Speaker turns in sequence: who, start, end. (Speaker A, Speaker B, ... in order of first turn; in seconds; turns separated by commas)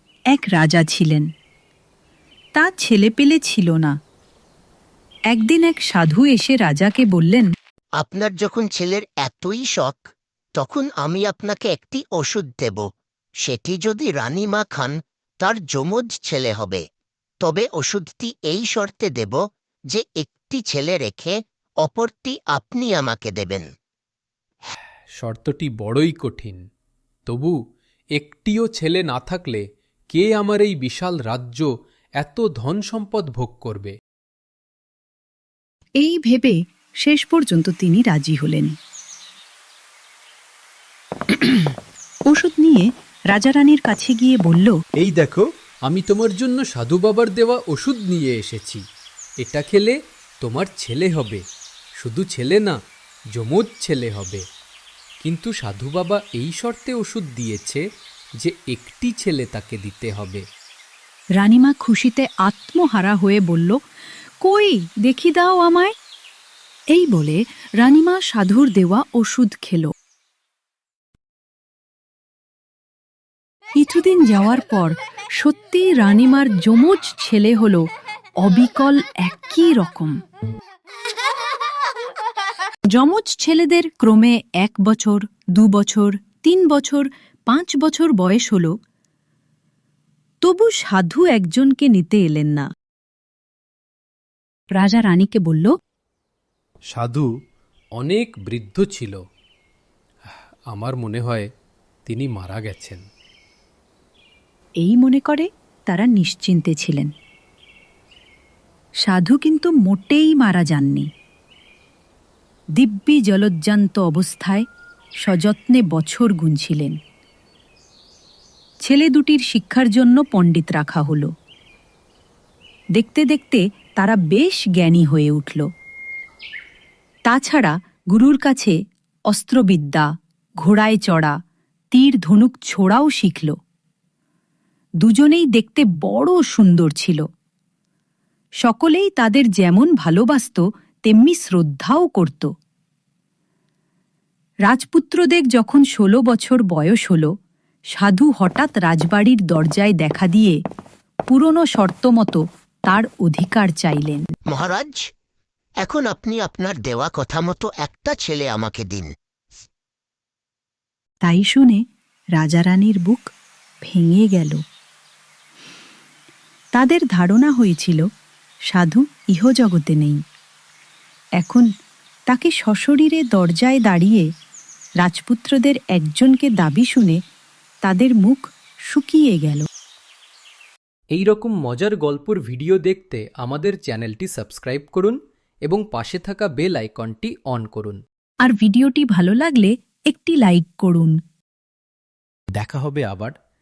Speaker A: 0.3-1.3, Speaker A: 2.5-3.9, Speaker A: 5.3-7.5, Speaker B: 8.0-10.0, Speaker B: 10.6-12.8, Speaker B: 13.4-16.8, Speaker B: 17.4-23.7, Speaker C: 25.2-26.6, Speaker C: 27.3-27.6, Speaker C: 28.2-33.9, Speaker A: 36.0-38.7, Speaker A: 42.3-44.7, Speaker C: 45.0-48.8, Speaker C: 49.4-51.4, Speaker C: 52.0-52.7, Speaker C: 53.3-54.4, Speaker C: 55.2-57.8, Speaker C: 58.4-60.4, Speaker A: 61.4-63.8, Speaker A: 64.4-65.9, Speaker A: 66.9-69.9, Speaker A: 73.8-77.9, Speaker A: 78.4-80.2, Speaker A: 82.9-88.7, Speaker A: 90.4-92.7, Speaker A: 94.7-95.7, Speaker C: 96.9-97.3, Speaker C: 98.0-99.2, Speaker C: 100.7-101.5, Speaker C: 102.0-103.0, Speaker A: 104.8-107.1, Speaker A: 109.0-111.1, Speaker A: 112.8-114.6, Speaker A: 115.2-117.0, Speaker A: 118.8-121.3, Speaker A: 123.0-125.7, Speaker A: 127.3-128.7, Speaker A: 129.3-130.1, Speaker A: 130.6-131.3, Speaker A: 131.9-133.5, Speaker A: 135.0-137.2, Speaker A: 138.6-142.5, Speaker A: 144.7-147.3, Speaker A: 147.9-150.6, Speaker A: 151.3-154.2, Speaker B: 154.5-155.0, Speaker B: 155.8-159.1, Speaker A: 161.2-161.8, Speaker A: 162.4-163.3, Speaker A: 163.8-164.6, Speaker A: 166.8-168.0, Speaker A: 168.7-170.2, Speaker A: 171.4-171.7, Speaker A: 172.3-174.3, Speaker A: 175.0-177.2, Speaker A: 177.8-179.6, Speaker C: 181.1-188.0, Speaker A: 188.4-191.2, Speaker C: 192.6-193.3